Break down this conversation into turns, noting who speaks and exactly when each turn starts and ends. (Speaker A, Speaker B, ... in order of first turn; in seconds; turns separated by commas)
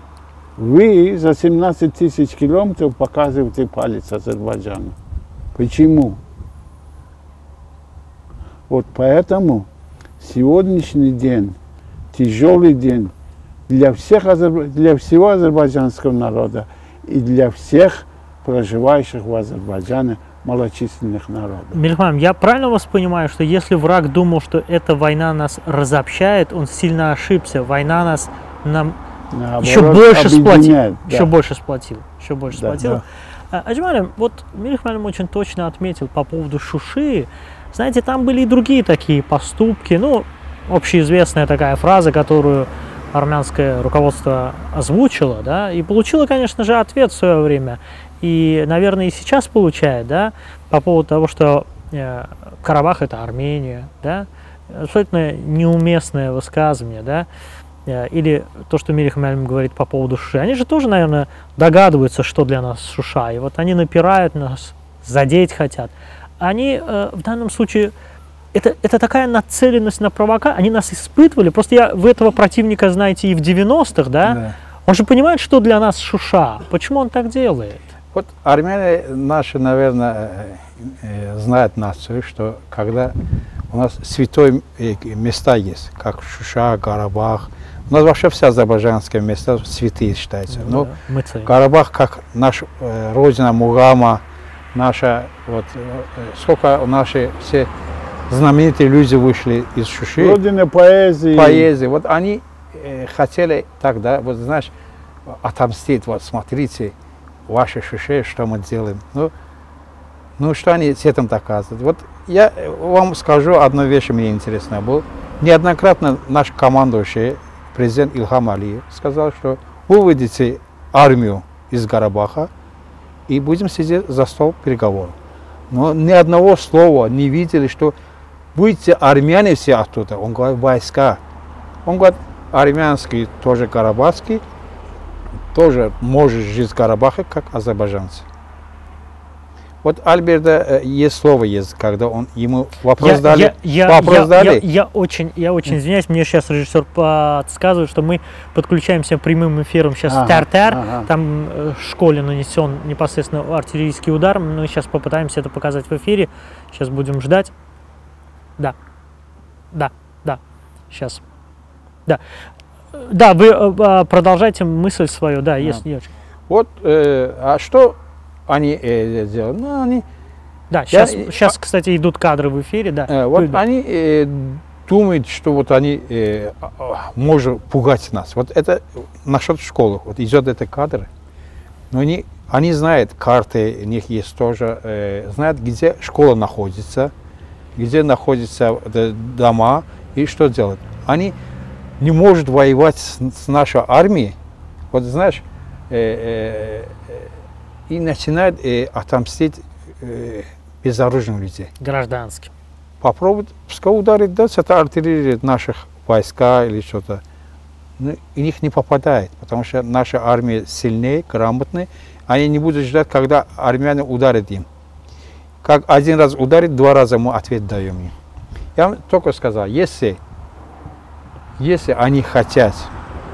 Speaker A: 0.6-5.0, Speaker A: 5.5-6.2, Speaker A: 8.7-9.7, Speaker A: 10.2-11.6, Speaker A: 12.1-13.1, Speaker A: 13.7-21.8, Speaker B: 21.7-28.9, Speaker A: 29.3-31.3, Speaker B: 29.6-57.3, Speaker A: 32.5-33.0, Speaker B: 57.9-67.9, Speaker B: 68.5-77.8, Speaker C: 74.2-74.5, Speaker C: 78.1-83.1, Speaker C: 83.7-90.9, Speaker B: 90.5-91.5, Speaker C: 91.5-94.2, Speaker C: 94.7-97.7, Speaker C: 98.3-100.4, Speaker A: 100.2-101.7, Speaker C: 101.3-104.7, Speaker C: 105.3-106.9, Speaker C: 107.5-109.3, Speaker C: 110.4-122.5, Speaker C: 123.3-125.2, Speaker C: 125.7-127.9, Speaker C: 128.5-131.2, Speaker C: 131.8-134.4, Speaker C: 135.5-138.2, Speaker C: 139.8-144.6, Speaker B: 143.0-157.5, Speaker A: 150.1-151.1, Speaker B: 159.7-161.2, Speaker B: 162.9-166.1, Speaker C: 166.5-170.0, Speaker B: 170.7-173.6, Speaker C: 170.9-171.5, Speaker C: 173.1-181.1, Speaker C: 181.9-187.1, Speaker C: 187.8-191.3, Speaker C: 192.0-194.3, Speaker C: 194.9-197.2, Speaker C: 197.9-201.7, Speaker B: 201.8-202.5, Speaker C: 203.0-207.2, Speaker C: 208.0-214.7, Speaker C: 215.6-218.1, Speaker C: 218.8-220.2, Speaker C: 221.6-222.9